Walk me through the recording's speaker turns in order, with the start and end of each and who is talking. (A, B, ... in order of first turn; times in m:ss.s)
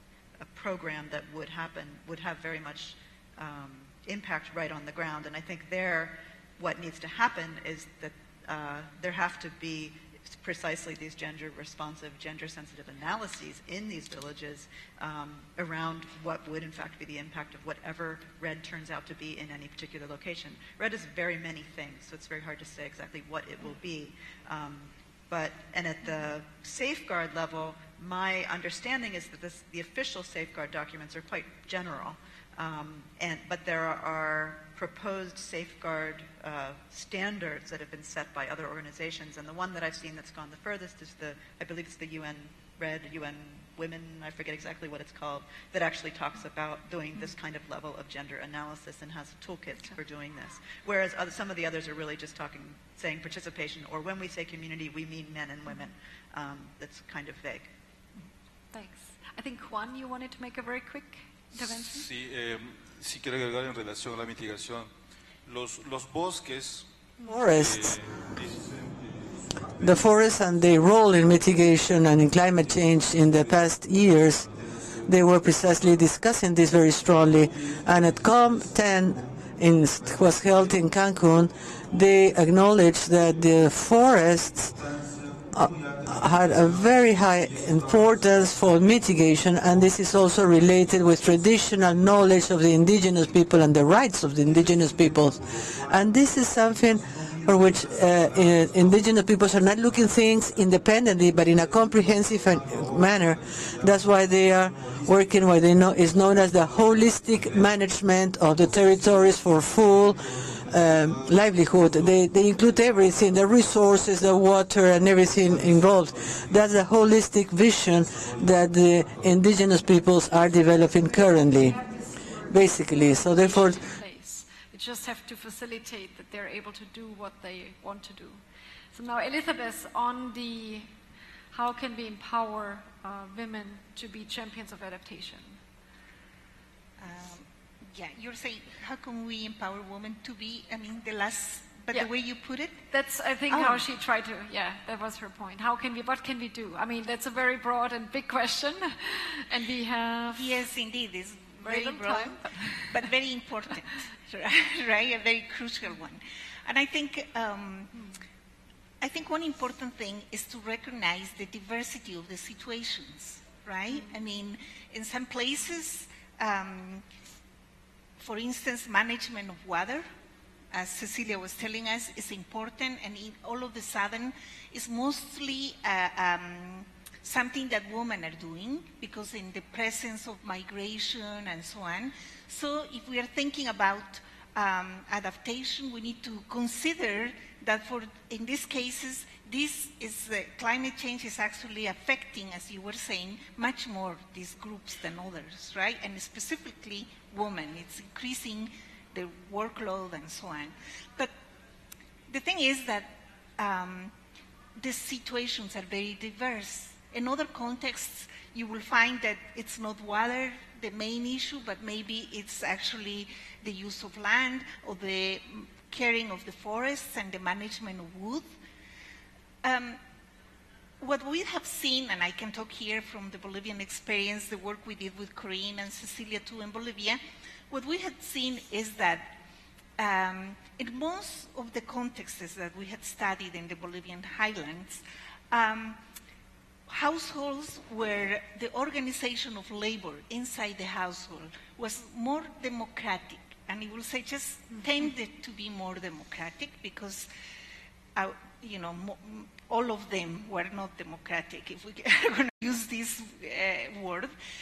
0:00.4-0:57.7 A
0:58.7-1:02.1 B
1:01.6-1:04.9 C
1:05.4-1:06.9 C
1:07.2-1:08.0 D
1:07.5-1:09.1 C
1:09.8-1:14.5 D
1:15.0-1:24.8 D
1:25.5-2:01.8 D
2:01.0-2:08.4 B
2:02.5-2:03.9 D
2:08.9-2:10.9 B
2:11.5-2:15.6 B
2:17.0-2:22.8 E
2:22.9-2:30.6 B
2:23.5-2:23.8 E
2:30.3-2:38.0 E
2:31.6-2:33.0 B
2:39.0-2:47.0 E
2:48.2-2:50.1 E
2:50.7-3:21.3 E
3:22.3-3:24.1 E
3:24.8-3:38.6 E
3:39.6-3:40.0 E
3:41.0-3:49.4 E
3:50.0-3:56.0 E
3:56.9-4:07.3 E
4:08.2-4:14.4 E